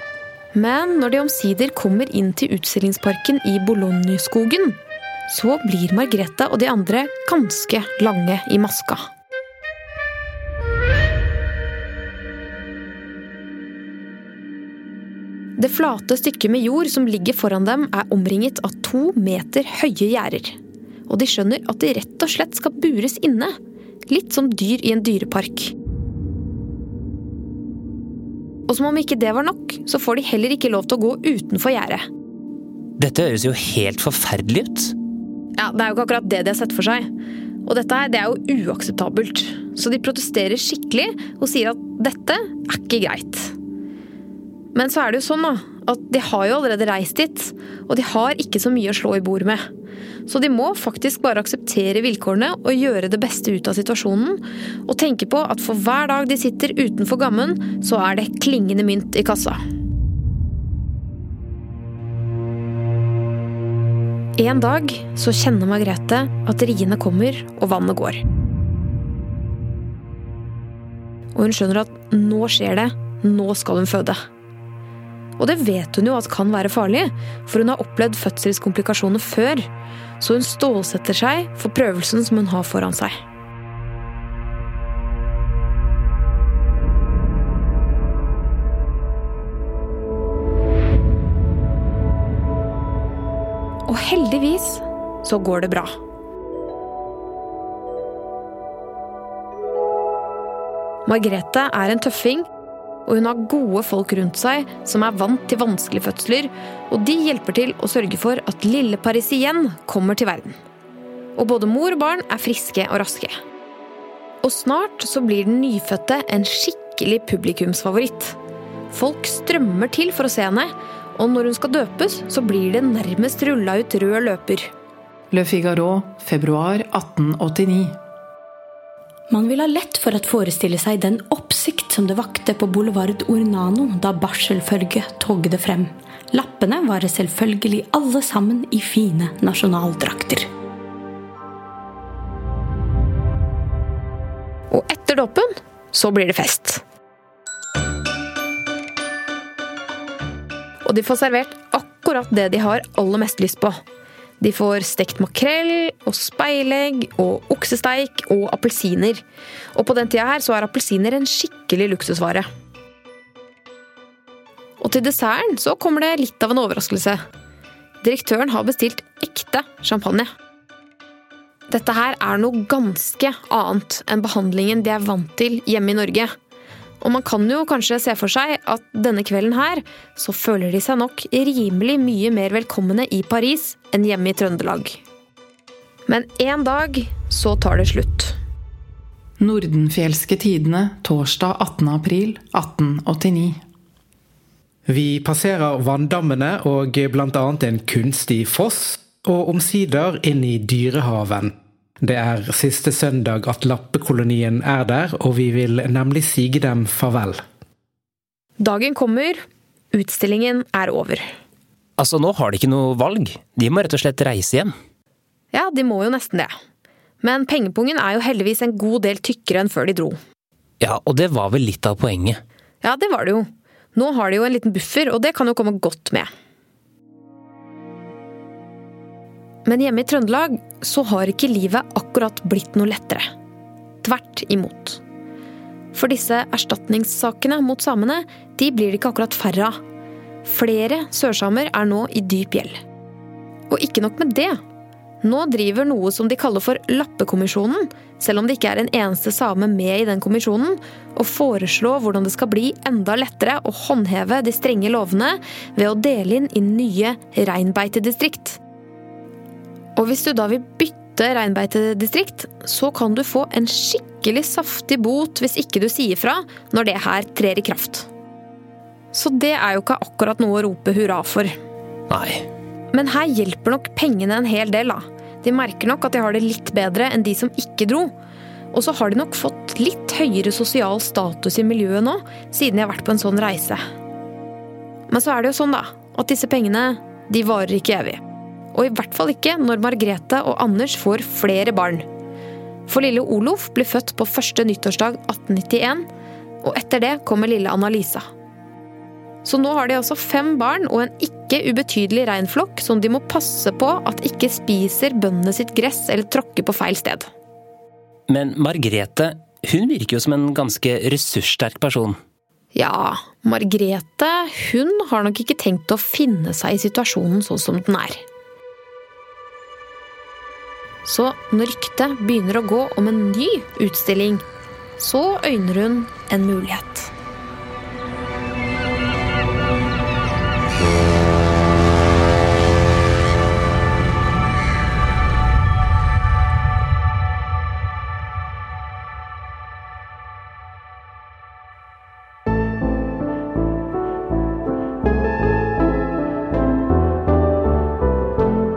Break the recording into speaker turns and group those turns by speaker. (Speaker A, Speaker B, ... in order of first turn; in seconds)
Speaker A: 0.5-4.8, 5.3-9.0, 15.6-20.6, 21.1-23.5, 24.1-25.7, 28.7-32.0, 35.6-37.1, 37.6-43.5, 44.7-49.6, 50.3-59.6, 64.4-68.2, 71.3-74.2, 75.4-79.7, 80.2-83.2, 93.9-95.9, 101.0-102.5, 103.0-110.6, 111.3-113.3, 114.4-118.4, 118.9-124.7, 144.7-146.8, 150.8-153.8, 154.4-159.2, 159.7-162.5, 164.8-167.2, 168.0-170.3, 171.7-176.3, 177.0-185.0, 186.1-188.3, 208.6-209.4, 209.9-211.2, 215.5-216.5, 217.2-220.2, 222.8-226.3, 229.7-233.3, 234.0-235.0, 235.9-239.8, 240.4-242.8, 243.7-244.6, 245.2-258.6, 259.9-268.1, 269.1-271.5, 272.9-278.1, 278.7-283.8, 285.1-288.2, 288.7-292.0, 292.9-296.1, 296.6-298.2, 299.4-307.3, 312.7-318.2, 321.0-324.4, 325.0-327.1
Speaker B: 33.0-34.9, 212.0-214.7, 220.8-222.4, 272.1-272.4, 308.3-312.2
Speaker C: 125.3-128.0, 189.4-193.6
Speaker D: 129.3-140.5
Speaker E: 194.9-201.5, 202.0-207.4